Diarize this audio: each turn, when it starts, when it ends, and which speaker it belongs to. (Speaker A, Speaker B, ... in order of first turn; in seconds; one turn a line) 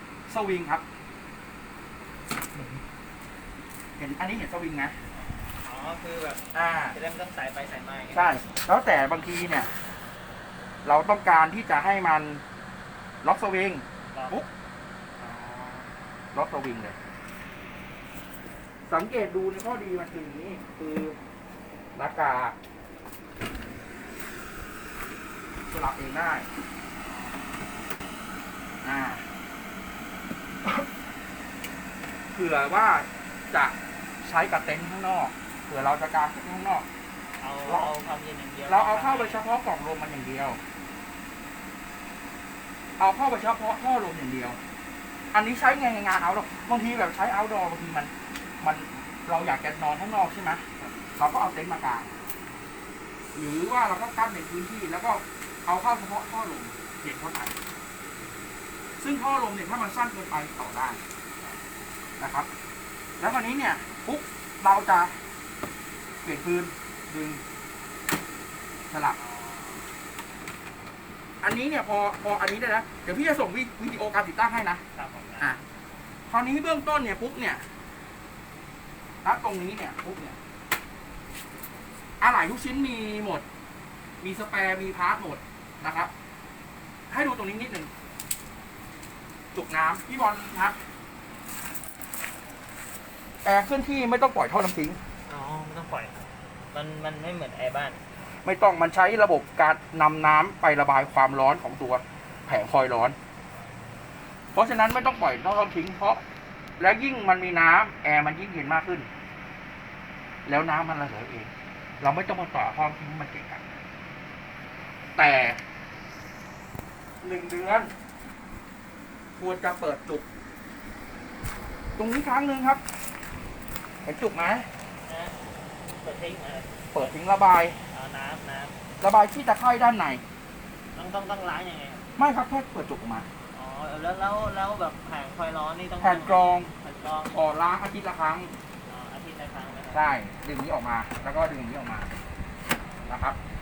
Speaker A: 0.3-0.8
Speaker A: 4.0-5.0
Speaker B: 5.1-8.4
Speaker A: 6.5-7.0
Speaker A: 8.1-9.7
Speaker A: 10.8-12.4
Speaker A: 13.2-14.5
Speaker B: 14.0-14.4
Speaker B: 15.2-16.0
Speaker A: 16.3-17.0
Speaker A: 18.9-21.2
Speaker A: 21.9-22.6
Speaker A: 25.7-26.5
Speaker B: 27.0-27.7
Speaker A: 28.8-29.3
Speaker A: 32.3-36.9
Speaker B: 37.4-39.4
Speaker A: 38.7-40.6
Speaker A: 43.0-44.6
Speaker A: 45.3-52.1
Speaker A: 53.4-57.6
Speaker A: 59.0-61.0
Speaker A: 62.2-62.5
Speaker A: 63.2-65.2
Speaker A: 66.2-67.4
Speaker A: 68.9-69.2
Speaker B: 69.2-69.9
Speaker A: 71.4-74.8
Speaker B: 74.9-75.7
Speaker A: 76.3-77.7
Speaker A: 79.2-80.4
Speaker A: 82.2-83.5
Speaker A: 84.2-86.1
Speaker A: 87.1-87.9
Speaker A: 89.5-90.8
Speaker A: 93.4-95.0
Speaker B: 95.3-98.0
Speaker A: 98.4-103.2
Speaker A: 104.5-106.2
Speaker A: 106.8-109.1
Speaker A: 110.5-113.7
Speaker A: 115.2-115.6
Speaker A: 117.2-117.9
Speaker A: 119.4-120.3
Speaker A: 122.0-122.8
Speaker A: 124.0-124.7
Speaker B: 125.0-127.1
Speaker A: 126.9-127.8
Speaker B: 127.9-128.8
Speaker A: 129.0-130.2
Speaker B: 130.9-132.1
Speaker A: 132.2-133.3
Speaker B: 133.5-137.4
Speaker A: 136.0-136.7
Speaker A: 137.3-138.6
Speaker B: 138.9-140.0
Speaker A: 139.9-142.1
Speaker A: 143.1-143.4